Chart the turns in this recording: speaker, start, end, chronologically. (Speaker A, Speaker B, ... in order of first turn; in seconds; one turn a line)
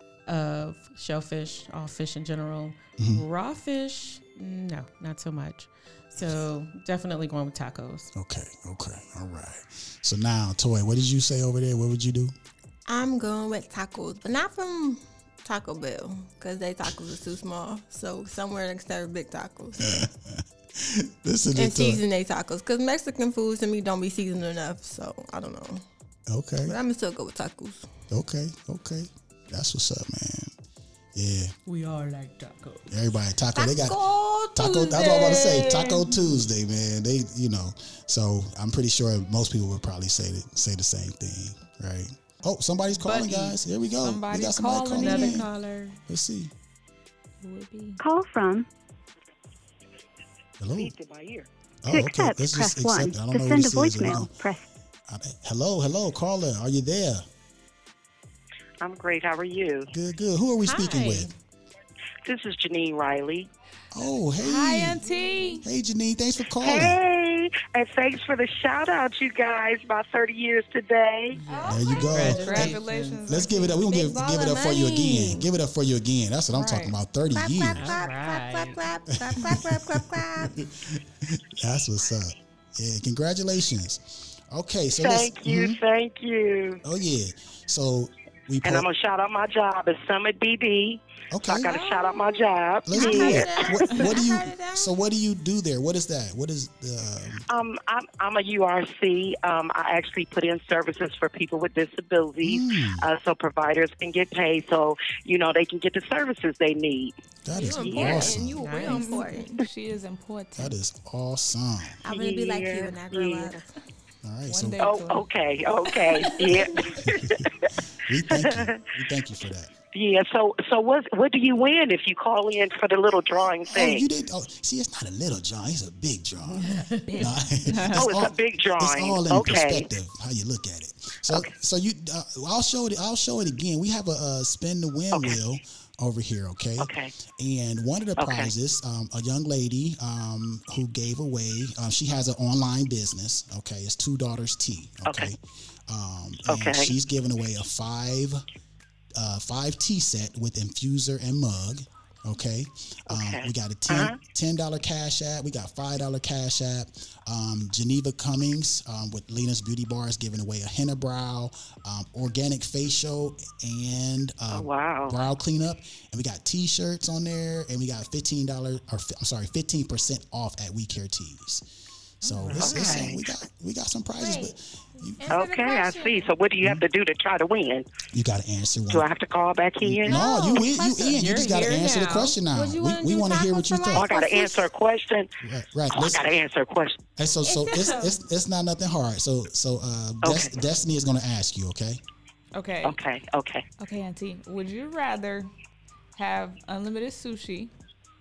Speaker A: 0.3-8.1
Speaker B: 3.0-3.2
Speaker B: 8.2-12.3
Speaker C: 12.9-19.8
Speaker B: 19.8-22.0
Speaker C: 21.6-25.8
Speaker B: 26.3-26.8
Speaker C: 26.6-27.9
Speaker B: 28.1-30.5
Speaker B: 31.1-31.6
Speaker A: 31.7-32.9
Speaker B: 32.9-45.5
Speaker C: 33.5-36.1
Speaker A: 43.0-43.6
Speaker D: 44.0-45.5
Speaker A: 45.0-46.0
Speaker B: 46.1-46.5
Speaker D: 47.4-48.0
Speaker E: 48.0-48.7
Speaker B: 50.6-50.9
Speaker F: 50.8-51.5
Speaker B: 51.8-54.3
Speaker E: 51.9-54.6
Speaker B: 55.1-57.2
Speaker F: 58.8-59.9
Speaker B: 59.9-61.3
Speaker A: 60.7-61.3
Speaker F: 62.2-63.5
Speaker B: 63.9-65.0
Speaker D: 64.4-65.6
Speaker C: 65.0-65.6
Speaker B: 65.6-67.0
Speaker F: 66.6-71.4
Speaker A: 71.3-73.2
Speaker C: 71.5-72.6
Speaker B: 71.7-78.0
Speaker D: 72.1-73.9
Speaker C: 73.9-75.5
Speaker D: 76.5-77.0
Speaker C: 77.3-80.5
Speaker A: 77.8-78.8
Speaker B: 79.2-85.8
Speaker F: 85.0-86.8
Speaker B: 86.8-88.9
Speaker F: 88.6-93.9
Speaker B: 91.3-91.7
Speaker C: 91.6-94.9
Speaker B: 92.9-97.5
Speaker F: 97.5-107.2
Speaker B: 102.4-103.1
Speaker B: 107.5-108.6
Speaker C: 107.5-109.7
Speaker F: 107.7-108.4
Speaker A: 108.6-109.3
Speaker D: 108.8-110.8
Speaker B: 110.6-112.0
Speaker C: 112.0-113.7
Speaker F: 112.1-113.6
Speaker B: 114.2-114.9
Speaker D: 114.5-115.3
Speaker F: 114.8-117.7
Speaker B: 117.0-117.5
Speaker B: 118.0-119.7
Speaker F: 118.3-118.8
Speaker F: 119.9-124.1
Speaker B: 123.7-148.4
Speaker A: 126.5-127.2
Speaker D: 127.1-128.1
Speaker F: 127.9-129.9
Speaker F: 135.1-135.4
Speaker F: 136.8-137.1
Speaker F: 138.2-138.5
Speaker F: 145.1-145.3
Speaker F: 146.5-146.9
Speaker B: 149.2-171.7
Speaker F: 153.1-154.2
Speaker F: 164.5-165.2
Speaker B: 172.2-175.3
Speaker A: 172.3-173.2
Speaker F: 172.5-173.2
Speaker C: 174.2-174.5
Speaker C: 175.2-176.3
Speaker F: 175.3-177.9
Speaker B: 178.1-179.1
Speaker F: 178.9-180.2
Speaker B: 179.8-184.1
Speaker C: 180.1-181.2
Speaker A: 181.0-182.4
Speaker C: 182.5-184.6
Speaker F: 183.9-185.3
Speaker B: 185.4-186.2
Speaker F: 185.9-187.0
Speaker B: 187.2-192.0
Speaker C: 187.5-188.1
Speaker F: 190.2-190.5
Speaker D: 192.5-193.0
Speaker F: 192.8-193.7
Speaker D: 193.8-195.5
Speaker D: 196.2-197.7